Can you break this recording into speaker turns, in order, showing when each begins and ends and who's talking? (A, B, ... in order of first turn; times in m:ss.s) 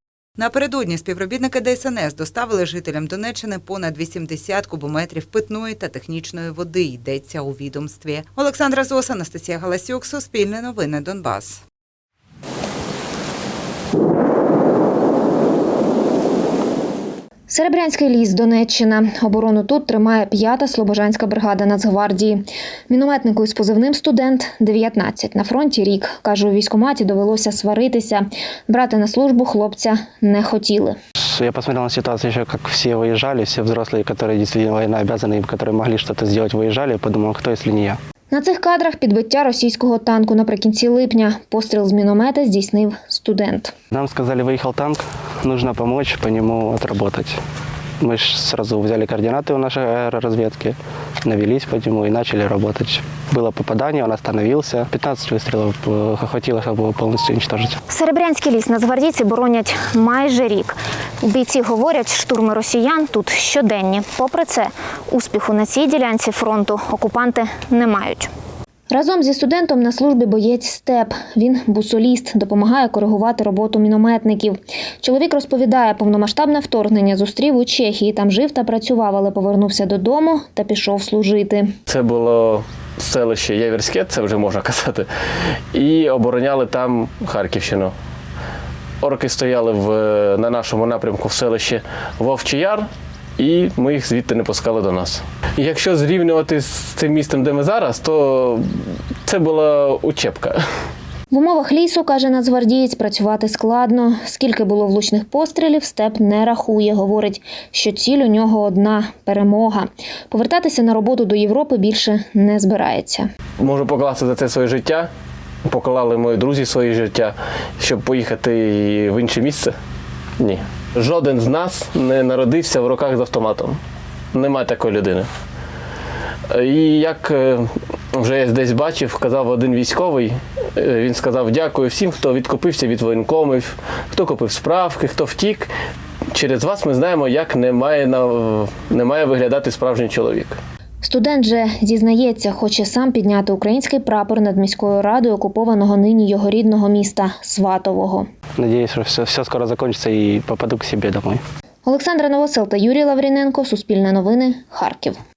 0:00.4-0:11.6 A
0:17.5-0:31.0 B
0:31.3-0:38.0 C
0:38.3-0:43.7 B
0:43.9-0:47.4 C
0:48.0-0:57.7 C
0:57.9-1:08.3 B
1:08.9-1:21.7 B
1:21.9-1:25.1 D
1:25.7-1:27.9 D
1:29.0-1:40.6 D
1:41.3-1:53.3 B
1:53.6-1:55.1 D
1:55.6-1:59.8 D
2:00.4-2:03.8 D
2:04.3-2:05.3 D
2:06.5-2:15.7 D
2:16.3-2:20.6 D
2:21.0-2:28.3 B
2:28.6-2:31.4 C
2:31.8-2:35.2 B